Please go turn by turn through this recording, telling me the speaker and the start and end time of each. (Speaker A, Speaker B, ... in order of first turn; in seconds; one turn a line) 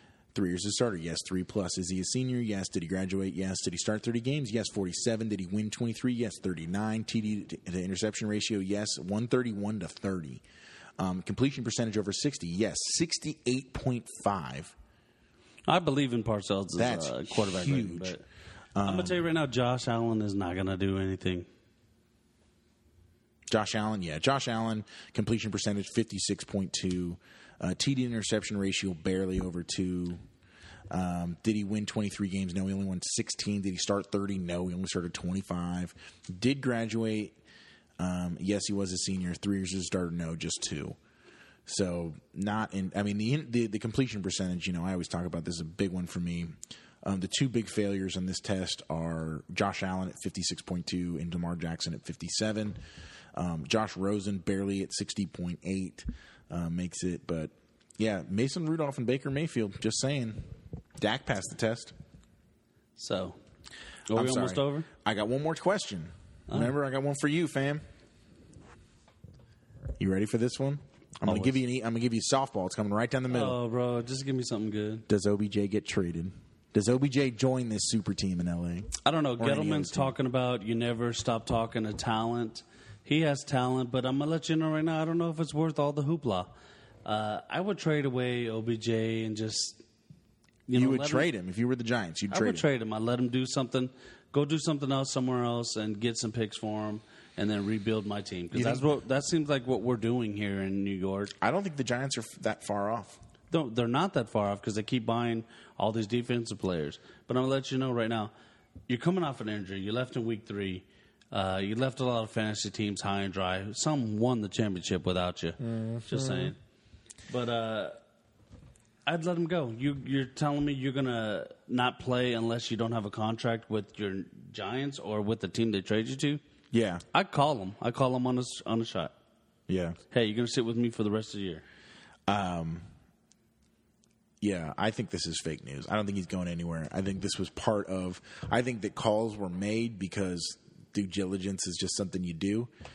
Speaker A: 0.3-10.4
Speaker A: 11.0-14.7
Speaker B: 15.7-18.2
Speaker A: 16.7-18.1
Speaker A: 18.8-19.2
Speaker B: 18.8-21.5
Speaker A: 23.5-30.2
Speaker A: 30.9-37.4
Speaker A: 38.0-41.0
Speaker A: 41.7-52.8
Speaker A: 53.3-61.9
Speaker B: 63.0-63.4
Speaker B: 64.1-64.9
Speaker A: 64.1-67.8
Speaker B: 66.5-66.8
Speaker A: 70.0-73.6
Speaker B: 71.2-71.6
Speaker B: 73.3-75.1
Speaker A: 75.1-80.2
Speaker B: 79.0-86.5
Speaker B: 87.0-89.8
Speaker B: 90.7-91.3
Speaker A: 90.7-92.7
Speaker B: 92.3-101.3
Speaker A: 98.5-98.9
Speaker A: 101.4-103.2
Speaker B: 103.5-108.3
Speaker B: 108.9-116.6
Speaker A: 115.8-116.5
Speaker B: 117.3-118.0
Speaker B: 119.1-126.4
Speaker A: 126.7-127.0
Speaker B: 127.1-129.1
Speaker A: 129.7-130.0
Speaker B: 130.1-131.6
Speaker A: 132.3-132.9
Speaker A: 134.4-142.7